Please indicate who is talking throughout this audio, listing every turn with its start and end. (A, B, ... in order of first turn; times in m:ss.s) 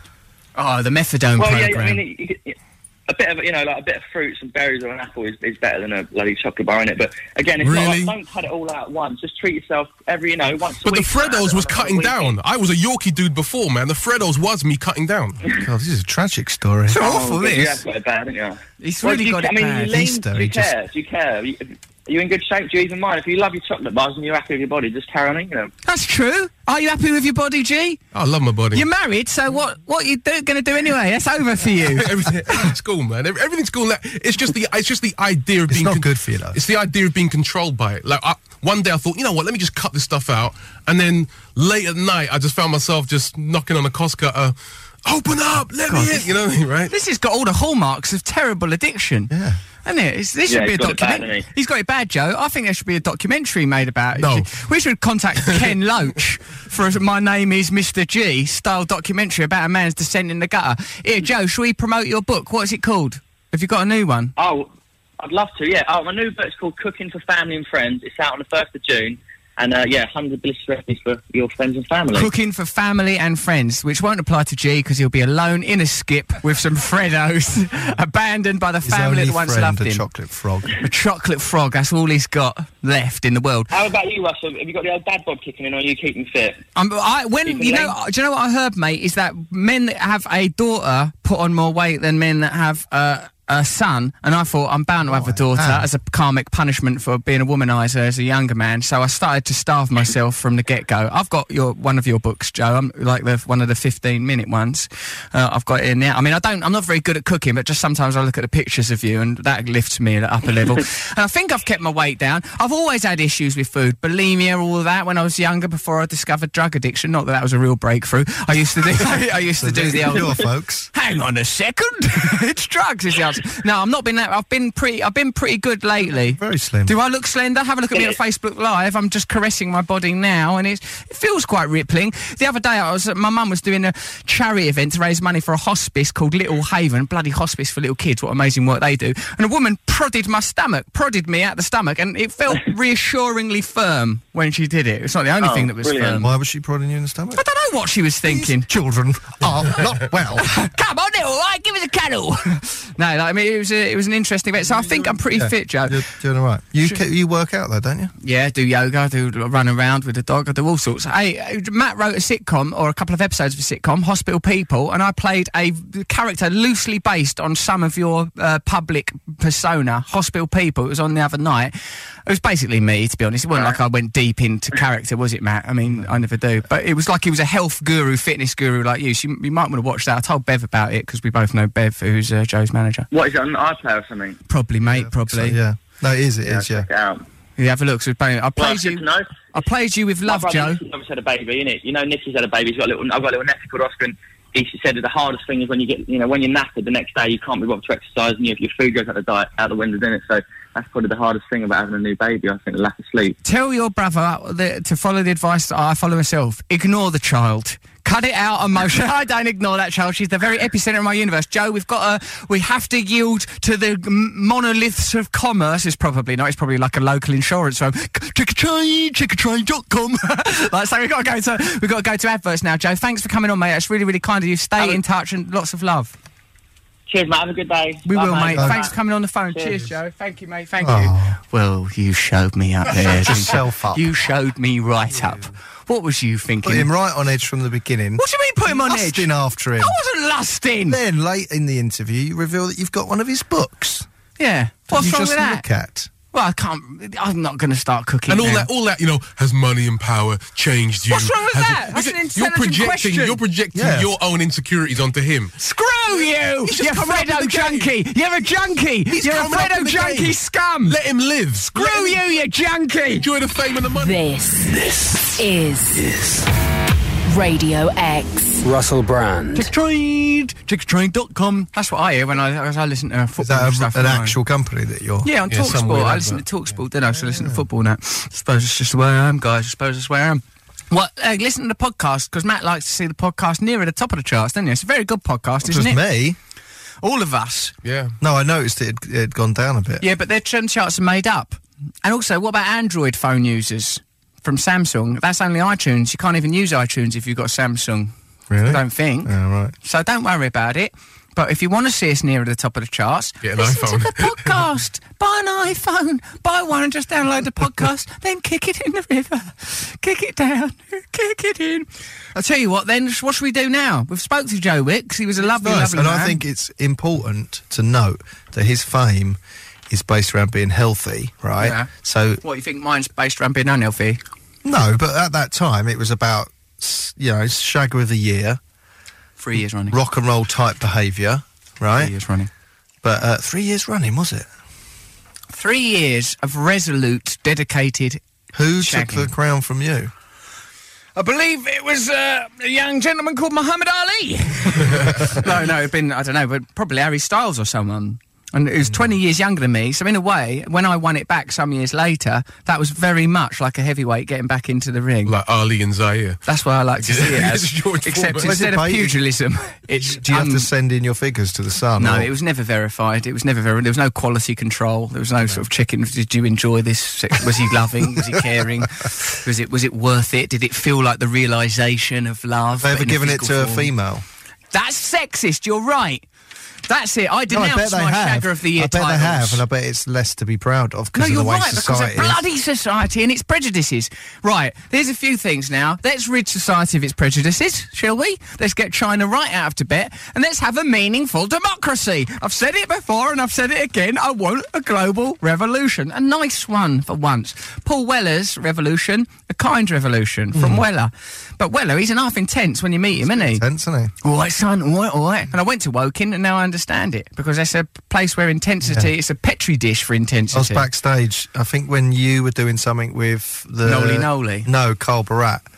0:00.6-0:02.0 A
0:01.4-0:12.4 B
0:07.6-0:08.1 C
0:10.8-0:15.4 C
0:15.5-0:17.0 D
0:16.9-0:17.8 A
0:17.0-0:25.7 B
0:18.8-0:20.1 A
0:19.9-0:20.7 D
0:25.8-0:28.0 A
0:28.1-0:28.8 C
0:28.7-0:32.2 A
0:31.8-0:46.9 C
0:35.7-0:36.6 D
0:45.9-0:46.2 A
0:46.9-0:49.3 A
0:49.3-0:49.6 D
0:49.8-1:04.3 A
0:50.5-0:51.5 B
0:54.2-0:54.5 C
1:04.4-1:12.3 B
1:12.1-1:20.0 A
1:18.8-1:20.7 D
1:20.8-1:23.7 A
1:23.7-1:26.6 B
1:26.7-2:00.4 A
1:27.4-1:28.0 B
1:35.0-1:35.9 D
1:59.6-2:00.9 D
2:00.9-2:26.3 A
2:06.2-2:06.9 D
2:25.4-2:26.2 B
2:26.2-2:27.4 D
2:27.3-2:28.7 A
2:28.2-2:30.5 D
2:30.3-2:36.0 A
2:35.2-2:38.1 D
2:38.2-2:51.7 A
2:52.2-3:03.1 A
3:03.1-3:04.4 B
3:04.5-3:05.6 A
3:04.8-3:06.9 D
3:06.4-3:07.2 B
3:07.6-3:10.8 A
3:08.6-3:09.4 B
3:10.2-3:23.4 B
3:23.4-3:46.1 A
3:47.1-3:48.9 B
3:48.0-3:56.9 A
3:49.5-3:49.8 B
3:50.8-3:51.4 D
3:52.9-3:54.1 D
3:56.6-4:00.0 D
3:58.2-4:01.0 A
4:00.9-4:04.1 D
4:04.4-4:05.6 A
4:04.9-4:06.1 D
4:06.3-4:08.7 A
4:08.3-4:15.6 C
4:11.0-4:13.4 A
4:13.7-4:14.1 D
4:15.6-4:21.0 A
4:16.1-4:17.9 C
4:19.1-4:22.2 C
4:21.7-4:23.2 A
4:23.2-4:24.2 C
4:23.9-4:26.2 E
4:24.7-4:25.4 F
4:26.1-4:26.4 F
4:27.3-4:28.8 E
4:28.6-4:29.6 F
4:29.5-4:34.4 A
4:33.4-4:35.3 D
4:35.2-4:46.0 A
4:35.5-4:36.4 C
4:37.2-4:37.6 D
4:45.6-4:46.4 D
4:47.0-4:47.7 A
4:47.8-4:48.1 C
4:48.2-4:50.0 D
4:50.0-5:16.4 A
4:58.5-4:59.7 D
5:03.4-5:04.4 C
5:15.5-5:22.4 D
5:21.6-5:21.9 A
5:22.4-5:24.2 A
5:24.6-5:28.6 D
5:29.4-5:30.0 A
5:29.9-5:32.1 D
5:32.0-5:32.5 A
5:33.0-5:34.5 D
5:35.5-5:38.2 A
5:38.5-5:40.1 D
5:38.8-5:39.3 A
5:41.1-5:55.3 A
5:55.2-5:56.4 C
5:56.4-6:00.7 A
5:57.0-5:58.6 C
5:58.4-5:59.2 D
6:00.0-6:02.3 D
6:02.0-6:13.9 A
6:12.8-6:14.2 D
6:14.7-6:16.2 A
6:16.9-6:19.6 A
6:17.5-6:22.4 D
6:21.1-6:43.6 A
6:40.5-6:40.8 D
6:43.2-6:44.1 D
6:44.2-6:50.9 A
6:48.8-6:49.1 D
6:50.5-6:55.6 D
6:53.8-6:54.7 A